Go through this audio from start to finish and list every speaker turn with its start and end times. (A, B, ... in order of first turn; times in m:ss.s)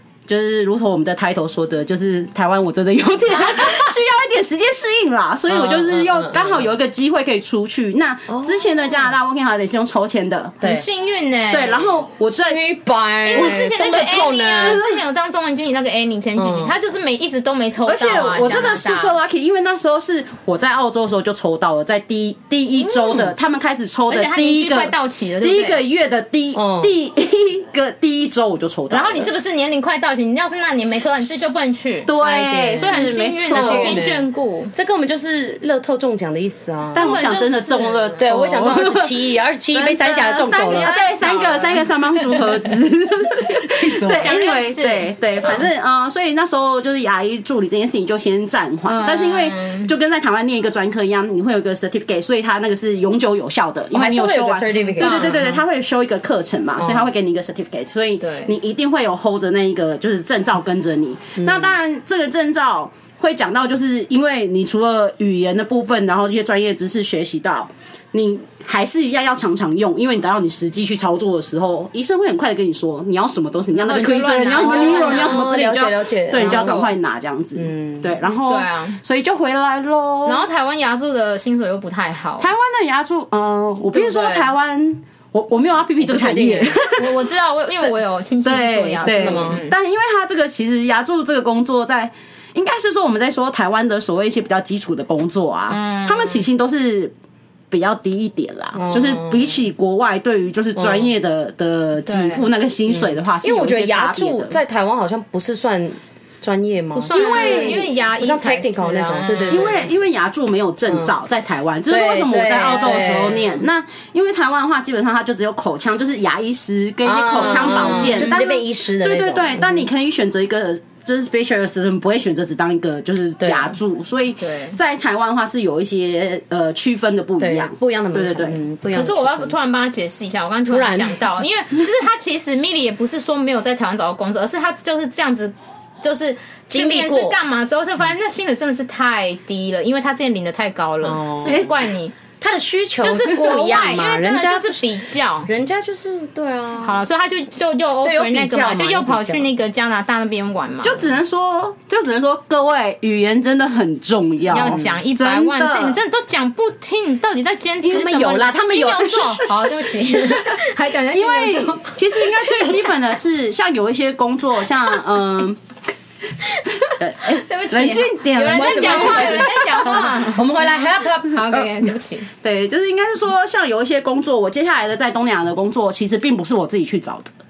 0:00.3-0:10.6 A
0:05.5-0:06.6 B
0:10.6-0:11.9 C
0:11.5-0:12.6 A
0:12.3-0:14.8 B
0:13.3-0:19.2 C
0:13.3-0:13.7 A
0:14.6-0:15.0 A
0:16.4-0:16.8 B
0:17.8-0:29.3 A
0:22.9-0:23.2 C
0:24.1-0:25.8 C
0:26.5-0:26.9 B
0:28.9-0:32.1 C
0:32.1-0:34.0 A
0:32.1-0:37.1 B
0:32.7-0:34.7 C
0:36.9-1:20.5 A
0:37.0-0:38.2 C
0:38.2-0:40.9 B
0:40.6-0:41.9 C
0:43.4-0:44.3 B
0:44.1-0:45.6 C
0:48.9-0:49.9 C
0:53.9-0:55.4 B
0:55.0-0:55.6 C
0:58.2-0:58.5 C
1:01.4-1:01.7 B
1:13.7-1:15.5 C
1:14.6-1:16.8 B
1:16.3-1:16.9 C
1:17.6-1:18.1 B
1:18.5-1:19.0 C
1:20.3-1:22.5 C
1:22.4-1:27.2 A
1:23.9-1:24.5 C
1:26.0-1:26.7 B
1:27.0-1:29.8 C
1:28.4-1:37.1 A
1:29.0-1:29.6 B
1:35.7-1:36.5 C
1:37.7-1:44.6 A
1:38.8-1:39.5 B
1:40.8-1:41.1 B
1:42.1-1:42.5 C
1:42.9-1:49.8 B
1:46.9-1:49.8 C
1:47.1-1:47.9 A
1:49.5-2:08.6 A
1:51.9-1:53.4 B
1:57.0-1:59.9 B
1:57.6-1:58.4 C
2:03.4-2:03.8 B
2:04.4-2:04.8 C
2:07.4-2:09.5 B
2:09.0-2:22.2 C
2:10.7-2:11.2 B
2:16.7-2:17.4 B
2:21.0-2:21.7 B
2:21.4-2:21.7 A
2:22.4-2:24.8 B
2:23.0-2:25.5 C
2:25.5-2:27.0 B
2:26.8-2:31.1 C
2:28.0-2:29.4 B
2:30.8-2:36.0 A
2:34.5-2:42.8 C
2:34.6-2:35.0 B
2:37.8-2:40.4 B
2:41.1-2:45.6 A
2:42.4-2:42.7 B
2:46.6-2:52.3 C
2:46.9-2:50.3 A
2:48.5-2:51.7 B
2:52.4-2:57.3 A